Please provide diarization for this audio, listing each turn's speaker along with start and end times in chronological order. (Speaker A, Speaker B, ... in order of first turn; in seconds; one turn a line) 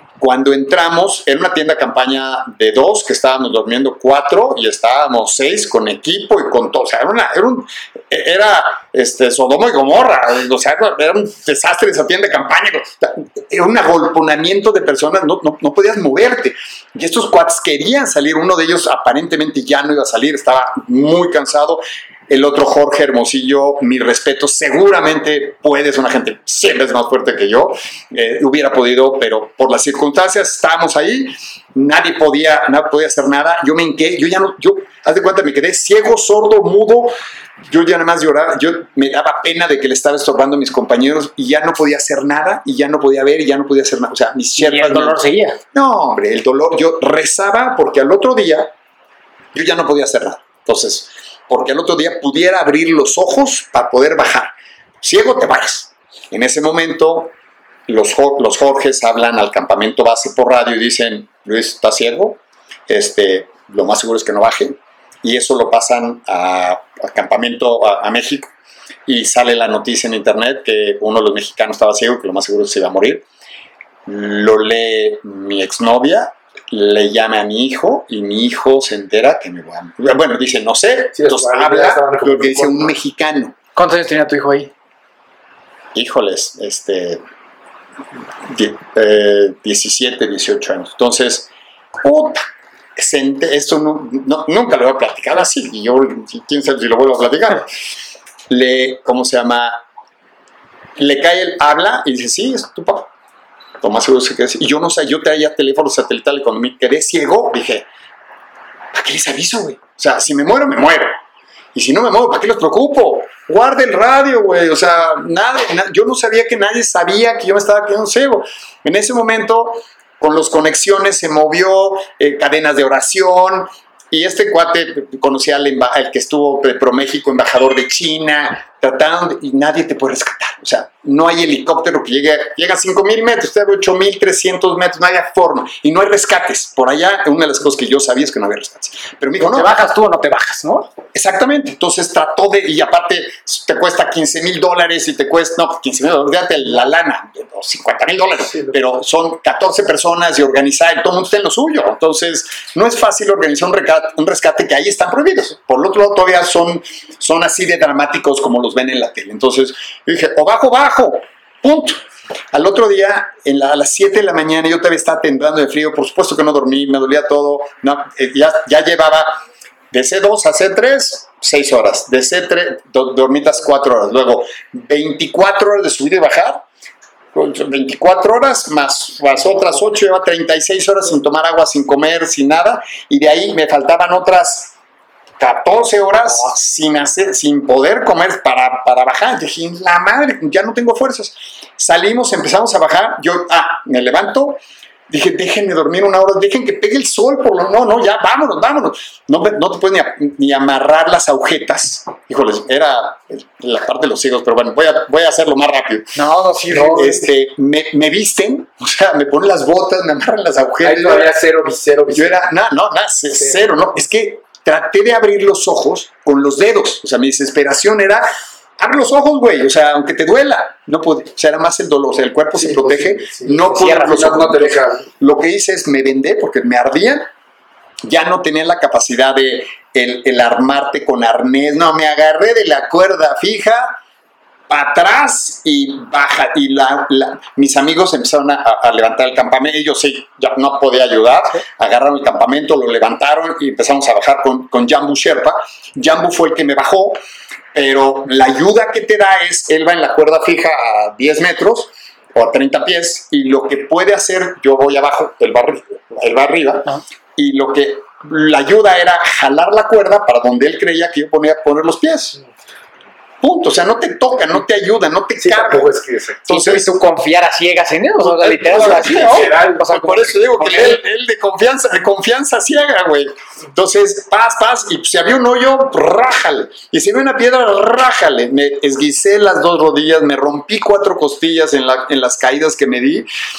Speaker A: 0.2-37.1
Speaker A: 37.7-45.2
Speaker B: 44.6-45.6
Speaker A: 45.7-48.7
Speaker A: 49.5-57.3
Speaker A: 57.9-68.5
Speaker A: 69.1-73.2
Speaker A: 74.0-83.5
Speaker C: 81.1-82.9
Speaker B: 83.8-84.7
Speaker A: 85.9-87.2
Speaker A: 88.5-91.5
Speaker A: 92.0-97.7
Speaker A: 98.5-99.8
Speaker A: 101.0-103.1
Speaker A: 103.8-107.9
Speaker A: 108.9-111.1
Speaker A: 111.7-139.8
Speaker B: 139.4-140.9
Speaker A: 141.1-162.0
Speaker A: 162.5-169.4
Speaker A: 169.9-176.6
Speaker A: 177.3-184.7
Speaker A: 185.4-206.1
Speaker B: 206.2-207.2
Speaker C: 206.7-207.1
Speaker A: 206.7-211.3
Speaker C: 210.8-212.4
Speaker A: 212.1-218.2
Speaker A: 218.8-227.3
Speaker C: 222.6-225.1
Speaker B: 223.7-224.2
Speaker A: 228.0-234.0
Speaker A: 234.7-247.2
Speaker A: 247.7-262.4
Speaker A: 263.4-265.9
Speaker C: 265.4-266.4
Speaker A: 266.5-266.9
Speaker B: 266.5-271.0
Speaker A: 268.2-283.3
Speaker C: 268.6-269.9